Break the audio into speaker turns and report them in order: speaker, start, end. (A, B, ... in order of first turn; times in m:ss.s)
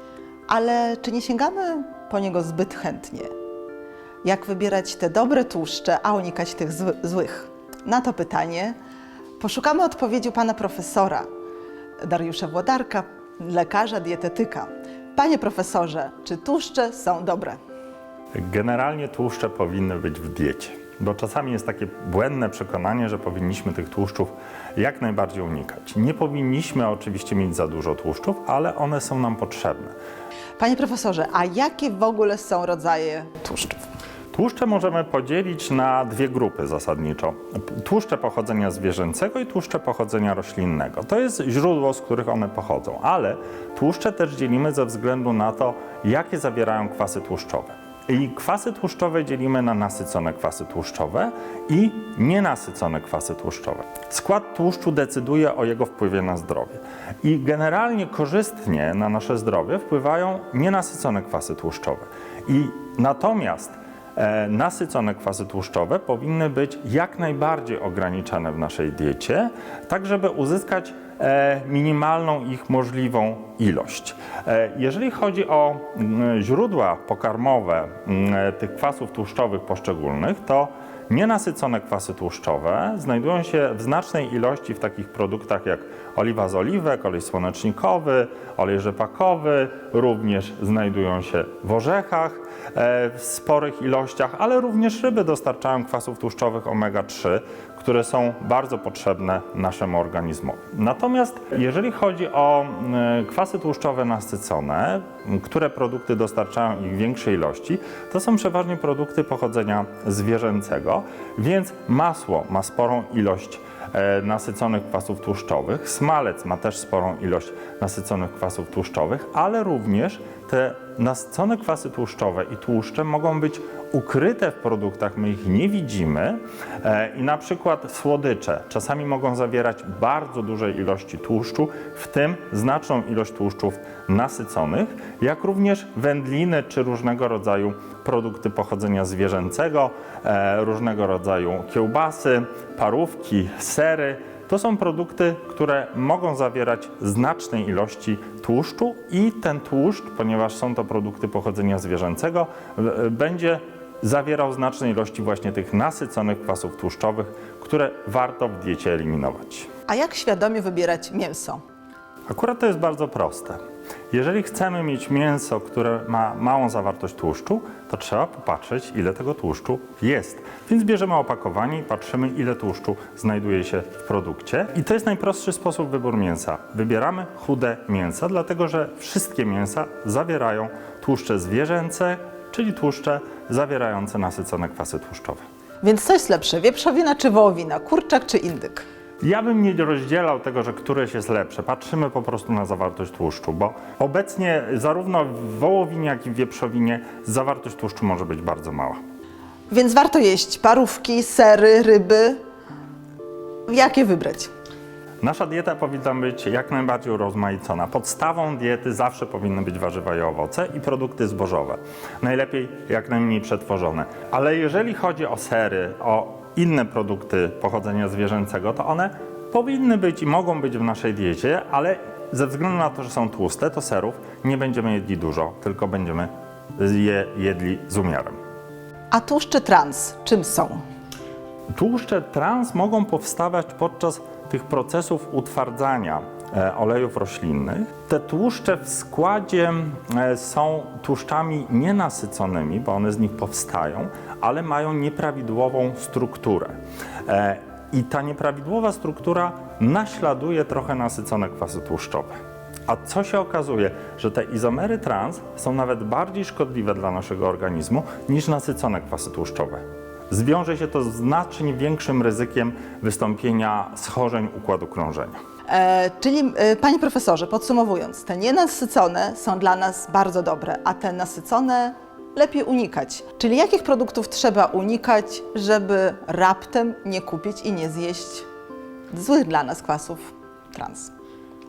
0:00.5-0:03.3 A
0:04.2-0:08.8 A
0:09.4-0:11.3 A
0:12.0-0:17.6 A
0:18.4-0:30.0 B
0:30.6-0:33.8 A
0:34.3-2:39.7 B
2:39.9-2:41.6 A
2:42.3-2:43.6 B
2:44.1-3:05.4 B
3:05.8-3:08.8 A
3:09.2-3:19.0 B
3:19.7-3:22.4 A
3:23.7-3:24.5 A
3:25.2-3:48.4 B
3:49.1-3:50.8 A
3:51.7-4:12.4 B
4:12.9-4:25.4 B
4:25.7-4:38.5 A
4:39.1-4:41.1 A